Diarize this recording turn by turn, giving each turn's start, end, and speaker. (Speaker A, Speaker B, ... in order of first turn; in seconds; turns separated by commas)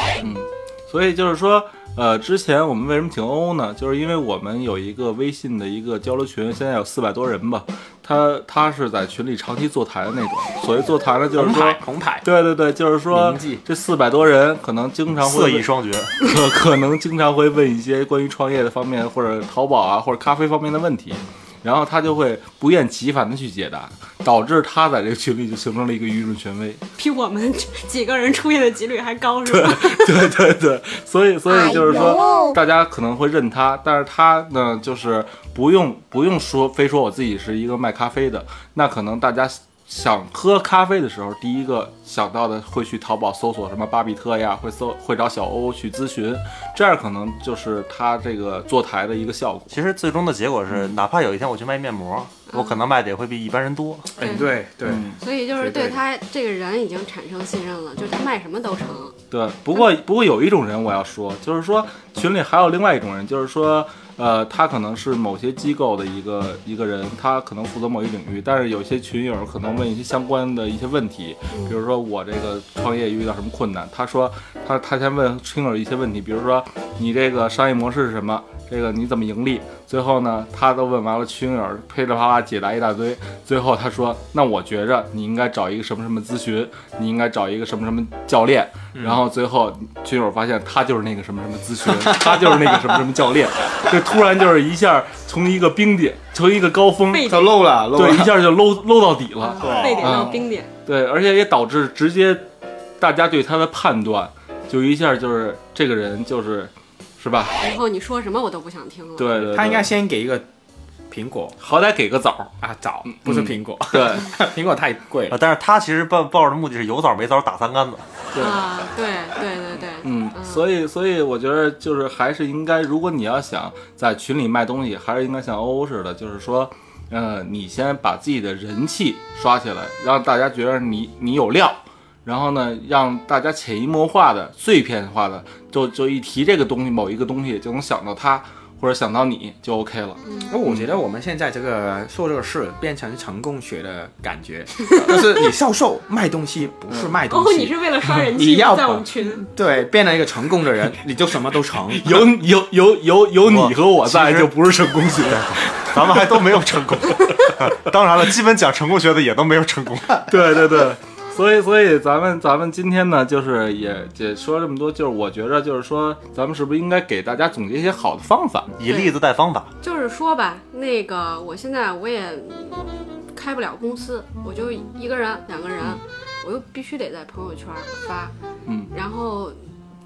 Speaker A: 0.2-26.8, Speaker B: 11.3-12.3, Speaker B: 13.1-13.6, Speaker C: 15.2-16.2, Speaker D: 27.0-30.3, Speaker A: 29.5-49.8, Speaker D: 31.6-32.4, Speaker C: 49.7-54.2, Speaker D: 52.5-52.8, Speaker B: 54.2-56.0, Speaker D: 54.2-54.5, Speaker A: 54.8-55.2, Speaker D: 55.2-59.1, Speaker A: 59.3-102.4, Speaker D: 71.5-71.8, Speaker B: 88.9-89.2, Speaker B: 91.9-93.0, Speaker D: 97.1-97.6, Speaker B: 97.2-98.5, Speaker D: 99.4-100.7, Speaker B: 99.6-100.3, Speaker A: 103.0-107.5, Speaker D: 107.6-109.3, Speaker A: 109.2-109.9, Speaker B: 109.3-110.5, Speaker B: 111.1-111.5, Speaker A: 111.6-112.5, Speaker B: 112.6-115.4, Speaker A: 113.0-114.3, Speaker C: 115.3-118.1, Speaker A: 118.3-118.6, Speaker D: 118.4-120.6, Speaker A: 120.0-140.9, Speaker D: 140.2-140.5, Speaker B: 140.5-152.3, Speaker A: 146.9-147.1, Speaker D: 147.3-149.5, Speaker A: 151.9-156.6, Speaker C: 153.4-154.5, Speaker C: 155.2-160.3, Speaker A: 160.3-168.7, Speaker C: 168.8-169.7, Speaker D: 168.8-169.1, Speaker D: 169.8-178.3, Speaker A: 178.7-178.9, Speaker D: 178.9-179.6